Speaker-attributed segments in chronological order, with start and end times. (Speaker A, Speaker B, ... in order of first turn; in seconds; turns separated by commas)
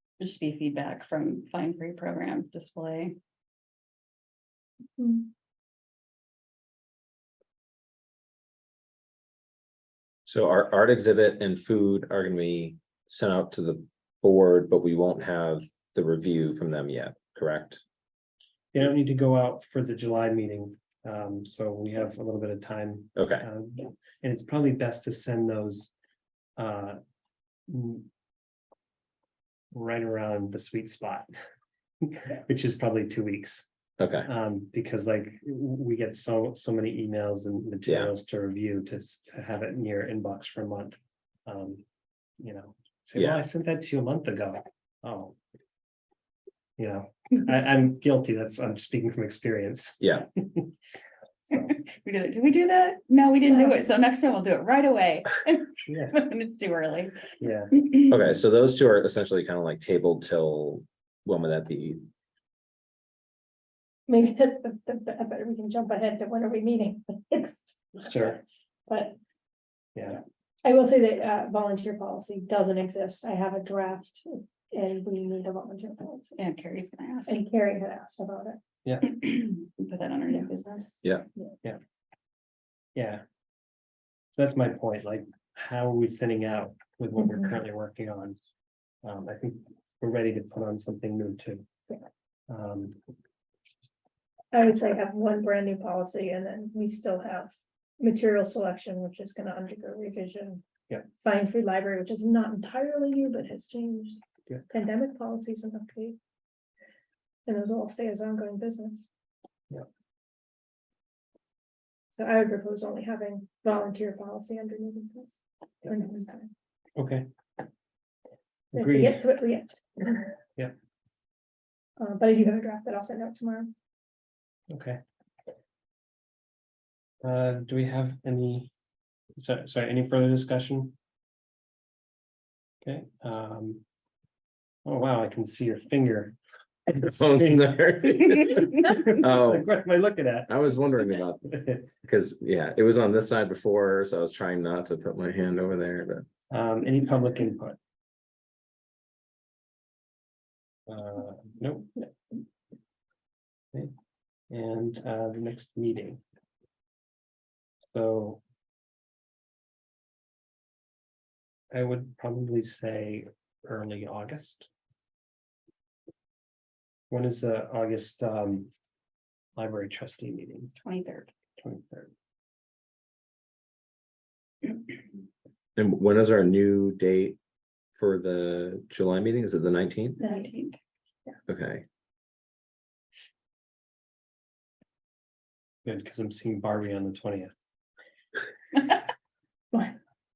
Speaker A: 0.2-3.1, Speaker B: 5.0-5.3, Speaker C: 10.2-17.8, Speaker D: 18.7-25.9, Speaker C: 23.1-23.5, Speaker D: 26.6-27.0, Speaker D: 27.7-28.1, Speaker D: 29.7-31.3, Speaker D: 32.0-33.7, Speaker C: 34.0-34.3, Speaker D: 34.2-41.8, Speaker C: 37.8-38.1, Speaker D: 42.4-45.4, Speaker C: 43.1-43.4, Speaker D: 46.8-50.7, Speaker C: 50.0-50.3, Speaker D: 51.5-51.8, Speaker A: 51.5-57.2, Speaker D: 55.9-56.2, Speaker D: 57.4-57.7, Speaker A: 57.7-58.1, Speaker C: 58.1-62.0, Speaker B: 64.1-68.4, Speaker D: 68.0-68.4, Speaker B: 68.9-69.2, Speaker D: 69.9-70.2, Speaker B: 70.6-76.3, Speaker A: 76.3-77.4, Speaker B: 77.3-78.6, Speaker D: 78.8-79.1, Speaker A: 79.0-81.0, Speaker D: 82.9-83.2, Speaker D: 84.3-88.4, Speaker D: 89.0-91.7, Speaker D: 92.5-93.0, Speaker B: 94.5-100.6, Speaker B: 101.2-106.2, Speaker B: 107.5-109.1, Speaker B: 112.1-116.5, Speaker D: 117.0-117.3, Speaker D: 118.7-119.3, Speaker B: 118.7-120.3, Speaker B: 122.0-123.7, Speaker D: 124.7-125.0, Speaker D: 127.2-128.7, Speaker D: 129.4-130.9, Speaker D: 132.8-133.8, Speaker D: 134.8-136.3, Speaker D: 136.9-137.5, Speaker C: 136.9-139.7, Speaker D: 138.8-140.5, Speaker C: 140.5-146.3, Speaker D: 141.5-141.9, Speaker D: 146.5-147.8, Speaker D: 150.9-152.0, Speaker D: 154.5-156.2, Speaker D: 157.9-158.4, Speaker D: 161.7-164.7, Speaker D: 167.1-168.7, Speaker D: 169.6-170.7, Speaker A: 170.8-171.3, Speaker D: 171.6-172.1, Speaker C: 175.8-177.4, Speaker C: 177.9-180.2, Speaker B: 180.2-180.5, Speaker A: 180.2-180.8, Speaker C: 181.5-181.8, Speaker D: 185.8-187.5, Speaker B: 189.7-190.0